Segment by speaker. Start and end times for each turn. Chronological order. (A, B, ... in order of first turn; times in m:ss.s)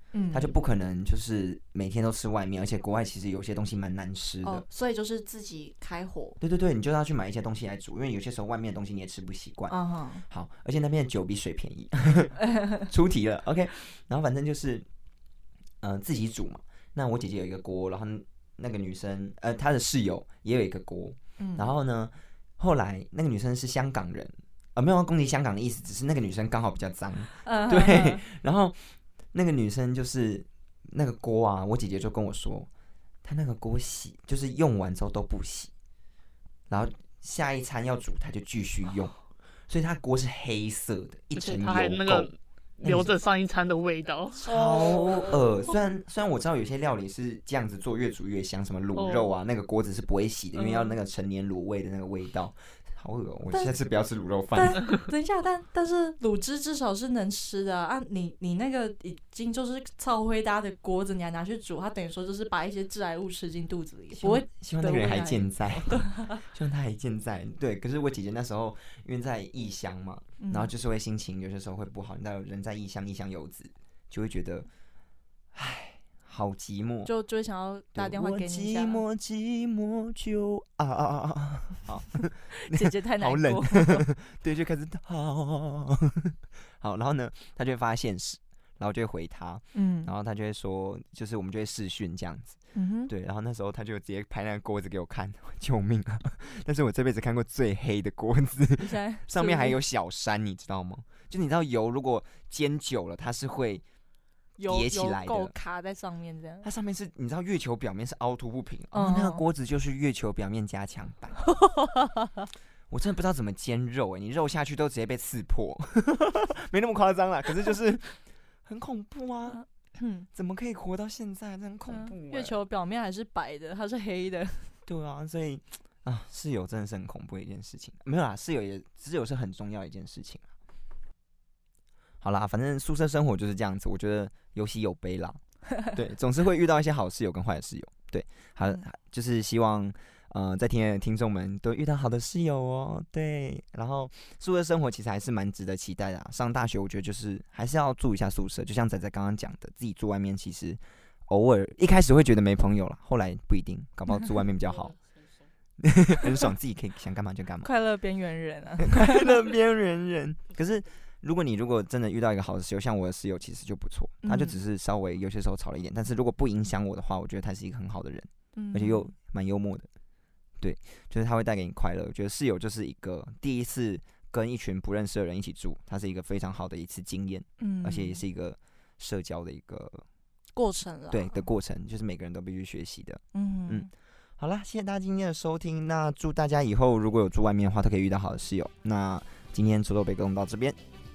0:00.1-0:00.6 A
0:00.3-0:04.6 B
0:04.4-0:06.4 A
0:06.4-0:09.8 B
0:09.7-0:10.2 A
0:10.3-0:14.9 B
0:15.8-0:32.7 B
0:21.4-0:21.7 A
0:27.4-0:28.2 A
0:33.2-0:35.7 B
0:36.7-0:39.1 B
0:39.7-0:43.2 B
0:41.4-0:45.4 C
0:44.4-0:45.8 A
0:44.5-0:54.8 B
0:49.0-0:49.3 C
0:50.6-0:50.9 A
0:53.5-0:53.8 A
0:54.5-1:06.4 A
1:04.1-1:14.7 B
1:10.4-1:10.7 A
1:15.5-1:17.1 B
1:17.0-1:19.0 A
1:17.9-1:43.8 B
1:22.6-1:24.1 A
1:29.7-1:30.1 A
1:32.7-1:33.1 A
1:38.8-1:39.8 A
1:44.6-1:46.7 A
1:44.7-1:45.5 B
1:46.6-1:51.4 B
1:48.9-1:49.4 A
1:51.5-1:52.4 A
1:52.9-1:59.6 B
1:59.5-2:00.3 A
2:00.3-2:02.6 B
2:01.9-2:04.8 A
2:04.9-2:10.5 B
2:12.2-2:34.9 B
2:34.7-2:35.2 C
2:35.8-2:37.7 B
2:37.6-2:39.4 A
2:38.8-2:49.9 B
2:44.2-2:44.6 A
2:48.5-2:49.1 A
2:50.6-3:00.1 B
2:57.6-2:58.2 A
3:00.5-3:01.4 A
3:01.1-3:10.8 B
3:03.3-3:03.9 A